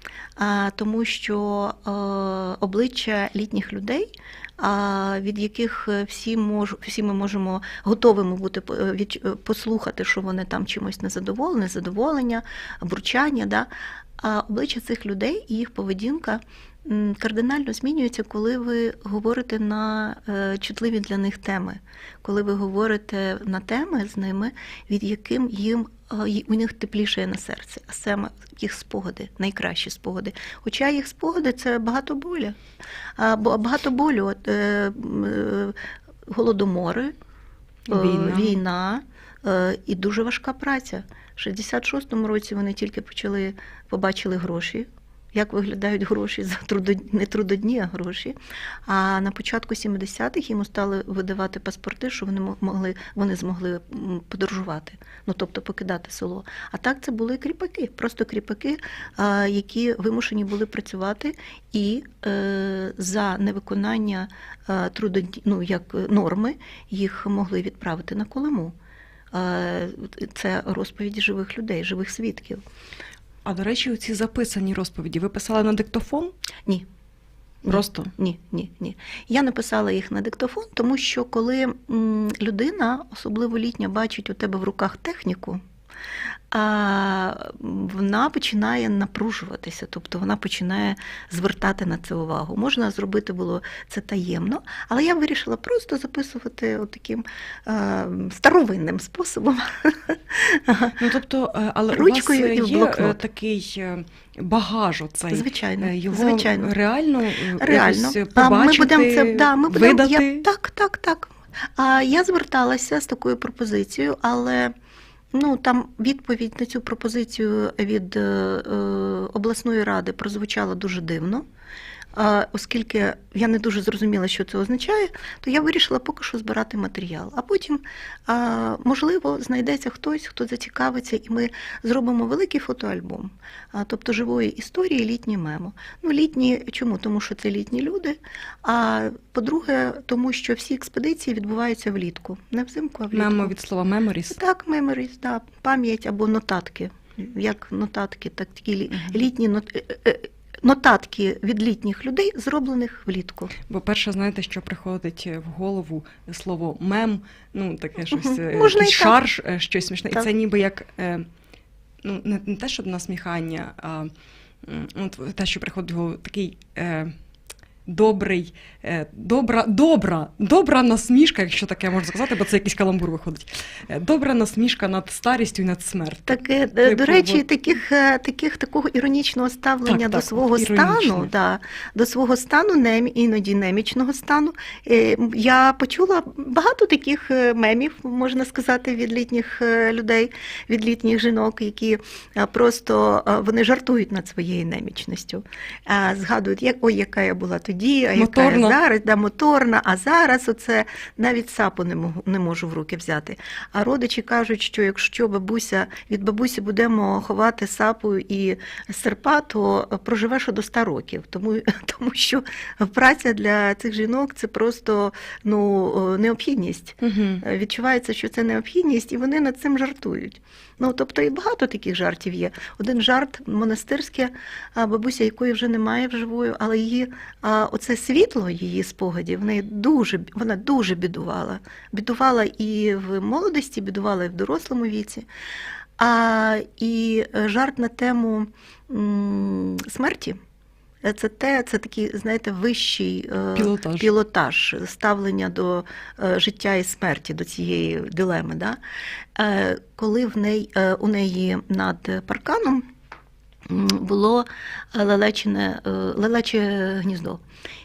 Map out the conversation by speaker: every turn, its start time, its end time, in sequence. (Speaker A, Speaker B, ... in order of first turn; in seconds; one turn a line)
Speaker A: 0.4-32.5
Speaker A: 33.2-37.1
Speaker B: 37.9-38.6
Speaker A: 37.9-68.7
Speaker A: 69.3-72.6
Speaker B: 73.4-76.3
Speaker B: 77.7-78.1
Speaker A: 77.7-85.6
Speaker A: 86.5-101.0
Speaker B: 101.0-110.4
Speaker A: 101.9-103.2
Speaker A: 105.3-106.7
Speaker A: 107.6-114.7
Speaker A: 115.3-121.4
Speaker A: 122.2-143.5
Speaker B: 143.1-144.4
Speaker A: 144.3-153.5
Speaker B: 148.9-149.2
Speaker B: 153.7-161.3
Speaker A: 158.1-159.2
Speaker B: 162.0-167.1
Speaker B: 167.8-177.4
Speaker A: 176.3-235.3
Speaker B: 179.8-181.3
Speaker B: 198.2-198.8
Speaker B: 217.0-217.4
Speaker A: 236.0-240.4
Speaker A: 241.0-248.8
Speaker B: 243.6-244.1
Speaker A: 249.3-252.8
Speaker A: 253.7-257.4